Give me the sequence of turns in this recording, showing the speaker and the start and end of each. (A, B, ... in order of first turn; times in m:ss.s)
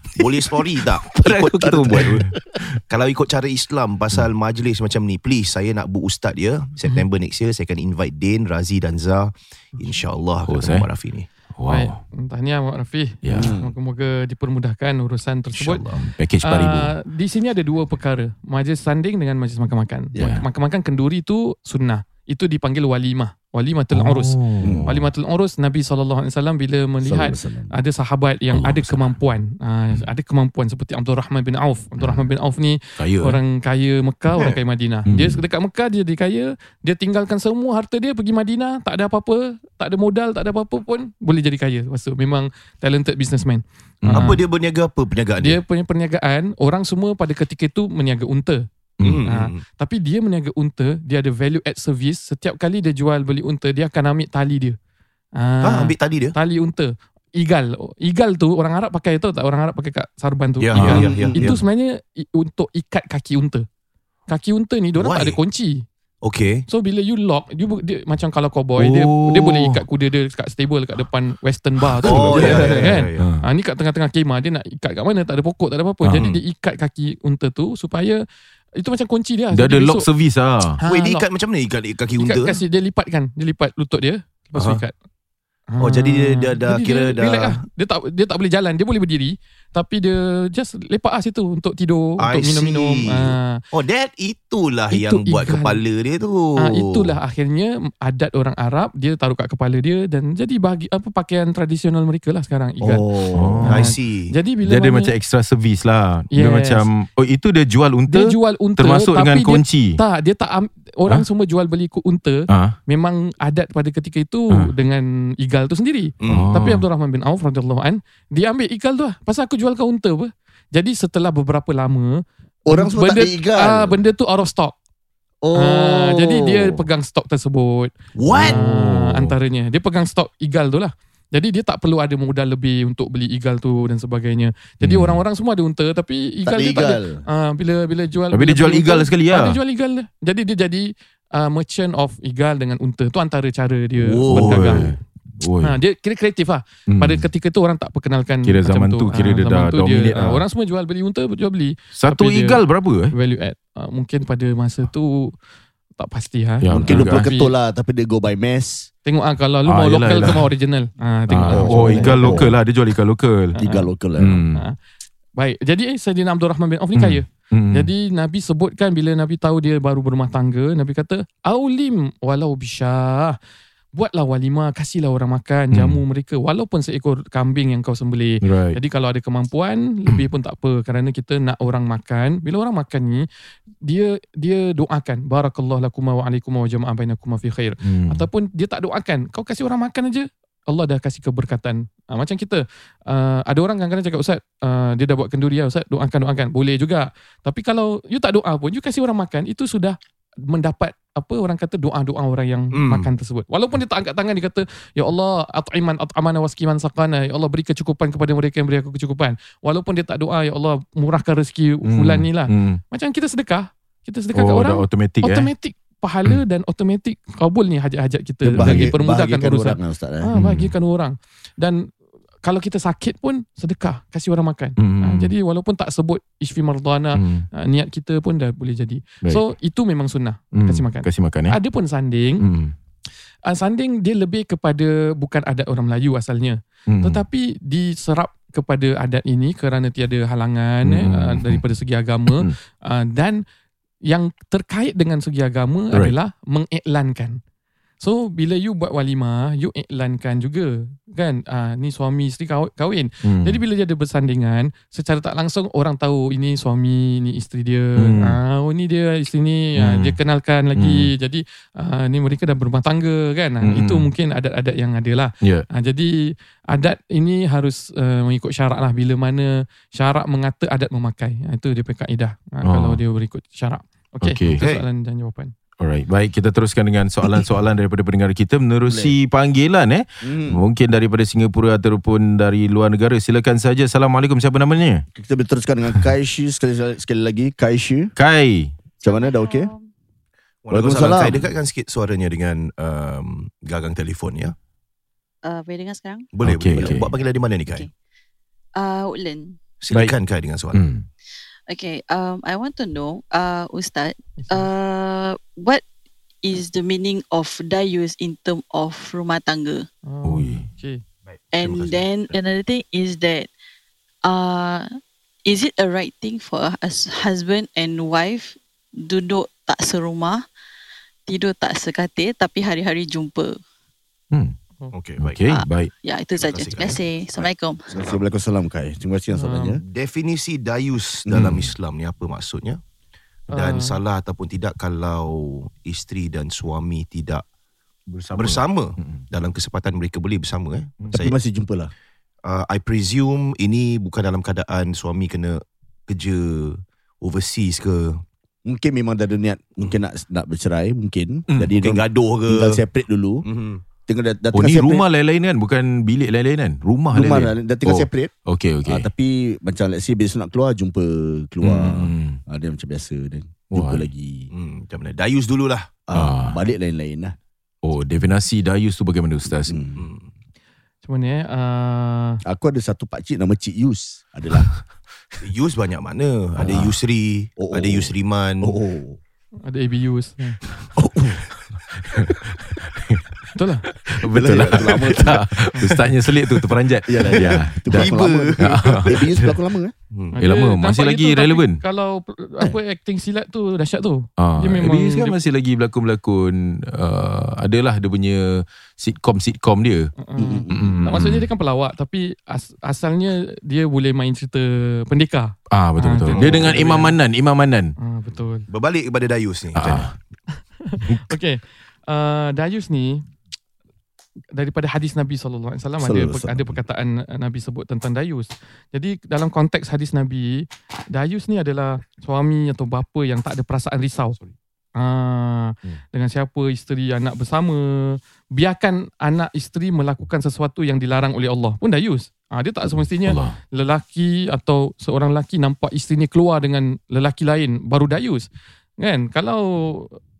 0:00.2-0:02.2 A
0:01.2-0:02.6 B
0:02.1-0:02.3 C
0:02.9-0:11.3 A
0:10.4-0:10.9 B
0:11.5-0:12.0 B
0:11.7-0:15.8 D
0:13.2-0:13.6 B
0:13.3-0:13.7 C
0:15.5-0:16.0 A
0:16.0-0:16.9 B
0:16.4-0:44.4 D
0:20.2-0:20.4 B
0:23.9-0:25.1 B
0:24.6-0:24.9 C
0:27.0-0:27.7 C
0:28.5-0:29.2 B
0:32.0-0:32.3 B
0:33.0-0:33.4 B
0:35.1-0:35.4 B
0:44.0-0:44.4 B
0:44.1-0:45.6 A
0:45.4-0:48.6 D
0:49.0-0:49.2 B
0:49.0-0:49.6 A
0:49.2-0:54.8 D
0:55.4-1:03.6 D
0:55.6-0:56.3 A
1:00.6-1:01.6 A
1:00.8-1:01.1 B
1:00.9-1:01.5 C
1:04.3-1:05.8 D
1:05.0-1:05.4 A
1:06.2-1:06.6 A
1:06.7-1:18.2 D
1:08.8-1:09.8 B
1:12.0-1:13.3 A
1:12.0-1:13.5 B
1:16.1-1:16.4 A
1:18.8-1:20.1 D
1:19.5-1:20.8 B
1:20.8-1:21.3 D
1:20.8-1:22.6 A
1:22.2-1:24.9 D
1:24.6-1:24.8 A
1:25.7-1:33.6 D
1:25.8-1:27.6 A
1:32.2-1:37.2 A
1:34.9-1:35.8 D
1:36.6-1:43.1 D
1:42.8-1:43.6 C
1:43.3-1:43.9 B
1:43.6-1:45.1 D
1:43.6-1:44.3 A
1:44.6-1:50.0 B
1:46.3-1:46.9 D
1:48.1-2:04.8 D
1:52.5-1:52.8 B
1:56.2-1:56.5 A
1:56.3-1:56.9 B
2:02.7-2:04.0 C
2:05.4-2:06.8 C
2:05.5-2:24.9 D
2:08.2-2:08.6 A
2:08.3-2:09.4 B
2:14.8-2:15.2 B
2:16.4-2:17.2 C
2:18.3-2:19.6 B
2:24.0-2:24.8 A
2:24.3-2:25.8 B
2:25.6-2:32.6 D
2:26.9-2:27.2 B
2:28.4-2:30.4 B
2:32.0-2:33.1 B
2:33.1-2:35.3 D
2:36.0-2:37.5 D
2:36.6-2:37.3 B
2:36.7-2:38.9 C
2:39.0-2:42.4 D
2:39.6-2:40.5 B
2:41.3-2:43.6 B
2:41.4-2:42.6 C
2:43.6-2:44.4 C
2:43.6-2:43.9 D
2:44.2-2:44.7 B
2:45.4-2:53.4 D
2:47.0-2:47.9 B
2:53.9-3:03.2 D
2:55.7-2:56.0 B
2:58.4-2:58.8 B
3:03.8-3:20.0 D
3:07.8-3:08.3 B
3:20.5-3:41.8 D
3:22.7-3:23.1 A
3:31.8-3:32.8 B
3:34.3-3:35.5 B
3:38.4-3:40.3 C
3:38.6-3:38.9 B
3:40.3-3:40.7 B
3:42.4-3:52.4 D
3:44.8-3:45.3 B
3:47.2-3:47.5 B
3:50.5-3:51.6 B
3:52.4-3:52.8 B
3:53.5-4:03.4 D
3:56.9-3:57.2 B
4:00.8-4:01.6 B
4:02.3-4:02.5 B
4:04.1-4:07.4 D
4:08.0-4:35.5 D
4:13.2-4:13.6 B
4:18.0-4:18.4 B
4:19.8-4:20.2 B
4:20.8-4:21.1 B
4:23.6-4:24.1 B
4:32.6-4:33.0 B
4:34.2-4:34.7 B
4:34.6-4:34.8 A
4:35.8-4:45.0 B
4:38.9-4:39.2 C
4:40.2-4:40.6 C
4:45.1-4:48.1 C
4:48.2-4:48.7 B
4:49.0-4:49.7 C
4:49.0-4:49.9 E
4:50.6-4:54.5 A
4:50.7-4:51.4 C
4:55.4-4:56.3 E
4:56.3-4:57.9 A
4:56.4-4:57.2 B
4:57.4-4:57.9 E
4:58.8-4:59.6 E
4:59.8-5:00.8 A
4:59.9-5:00.1 B
5:00.7-5:01.1 B
5:01.7-5:05.8 E
5:04.4-5:04.7 D
5:06.4-5:09.9 E
5:10.1-5:11.0 D
5:10.2-5:10.7 B
5:11.3-5:12.4 A
5:11.5-5:13.5 E
5:14.2-5:14.9 E
5:15.4-5:20.4 E
5:21.2-5:23.6 E
5:24.9-5:25.4 A
5:25.2-5:25.9 B
5:25.5-5:27.9 E
5:26.4-5:28.3 A
5:28.0-5:29.8 C
5:29.3-5:29.8 D
5:29.8-5:32.8 A
5:31.3-5:31.7 B
5:33.5-5:37.4 A
5:33.5-5:34.0 D
5:38.1-5:39.2 B
5:38.3-5:41.4 A
5:41.1-5:41.9 C
5:42.4-5:48.2 A
5:48.6-5:53.5 C
5:51.8-5:52.8 A
5:53.4-5:53.8 A
5:54.1-5:55.1 C
5:54.5-5:59.1 B
5:57.1-5:58.3 C
5:58.9-6:04.5 C
6:01.6-6:02.4 B
6:03.7-6:04.1 B
6:04.5-6:06.0 A
6:06.1-6:07.4 C
6:06.1-6:06.6 B
6:07.8-6:09.8 B
6:09.5-6:10.0 C
6:10.0-6:10.3 A
6:11.0-6:12.4 D
6:12.5-6:14.8 C
6:15.4-6:18.8 A
6:16.6-6:16.9 C
6:17.6-6:19.2 C
6:19.6-6:20.6 D
6:20.9-6:21.4 C
6:22.1-6:23.3 B
6:23.5-6:23.9 D
6:24.1-6:29.5 B
6:24.3-6:25.5 C
6:25.0-6:25.8 A
6:25.8-6:26.1 D
6:27.1-6:29.9 C
6:27.3-6:29.4 A
6:30.1-6:30.4 A
6:30.4-6:35.4 D
6:30.4-6:31.8 B
6:34.4-6:40.1 B
6:40.2-6:47.2 D
6:40.4-6:41.0 C
6:40.7-6:41.5 B
6:45.7-6:47.9 B
6:46.4-6:46.8 A
6:46.4-6:46.6 C
6:48.0-6:48.6 D
6:48.3-6:50.1 A
6:49.8-6:50.1 B
6:50.5-6:53.2 D
6:51.0-6:51.3 B
6:54.5-7:04.4 D
6:56.0-6:56.8 C
7:05.0-7:18.5 D
7:13.2-7:13.6 B
7:19.0-7:20.2 D